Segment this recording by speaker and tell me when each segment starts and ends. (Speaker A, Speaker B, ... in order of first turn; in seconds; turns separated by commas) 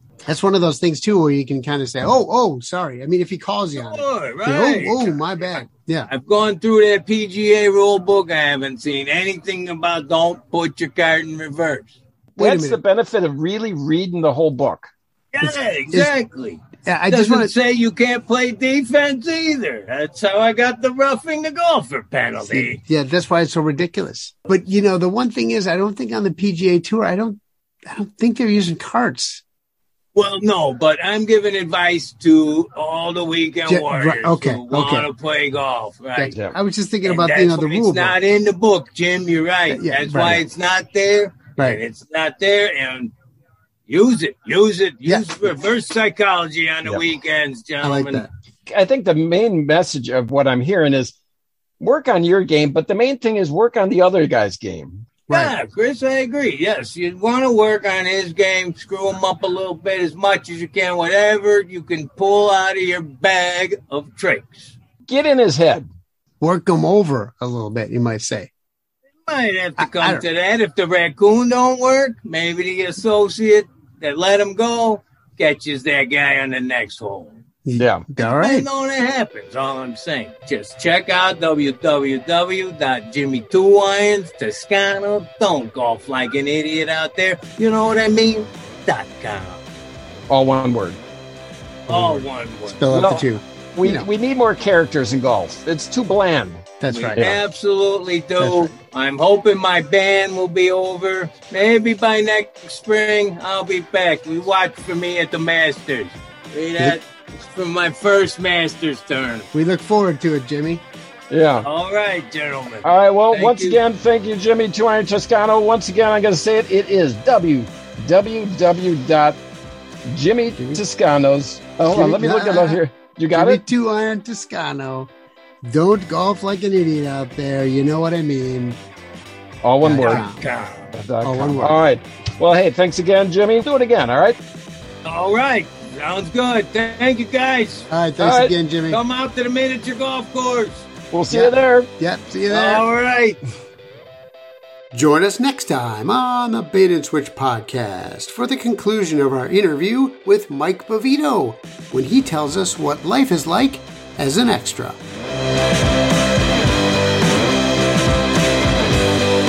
Speaker A: 0.2-6.1, Speaker B: 3.8-11.9, Speaker C: 12.4-14.9, Speaker A: 12.4-12.8, Speaker B: 15.3-22.8, Speaker A: 15.4-16.1, Speaker A: 16.9-17.5, Speaker A: 22.4-29.4, Speaker B: 30.1-36.4, Speaker A: 33.7-35.1, Speaker A: 36.2-38.1, Speaker B: 37.0-43.1, Speaker A: 39.7-40.4, Speaker B: 43.9-48.2, Speaker A: 47.8-48.3, Speaker C: 48.7-51.1, Speaker C: 51.8-55.1, Speaker A: 55.3-55.5, Speaker B: 55.3-64.8, Speaker C: 65.1-65.9, Speaker A: 66.4-68.5, Speaker B: 69.2-77.4, Speaker A: 69.8-70.2, Speaker A: 77.6-78.7, Speaker C: 77.8-78.0, Speaker B: 78.2-89.6, Speaker C: 90.3-91.0, Speaker B: 91.9-92.8, Speaker A: 91.9-94.1, Speaker C: 92.9-97.4, Speaker A: 96.8-97.2, Speaker B: 96.9-109.5, Speaker A: 98.4-98.7, Speaker A: 109.5-110.8, Speaker C: 111.3-111.7, Speaker B: 111.6-113.8, Speaker C: 112.8-119.4, Speaker C: 120.1-123.6, Speaker A: 120.5-120.8, Speaker A: 121.9-122.8, Speaker A: 123.3-125.1, Speaker A: 125.6-128.8, Speaker C: 129.6-130.3, Speaker A: 129.8-130.4, Speaker B: 130.0-130.9, Speaker C: 130.9-134.4, Speaker A: 131.2-131.8, Speaker B: 135.0-137.9, Speaker A: 137.9-139.0, Speaker C: 138.2-138.5, Speaker B: 138.9-140.9, Speaker C: 141.1-141.9, Speaker A: 141.3-142.8, Speaker B: 142.5-143.4, Speaker A: 144.9-155.0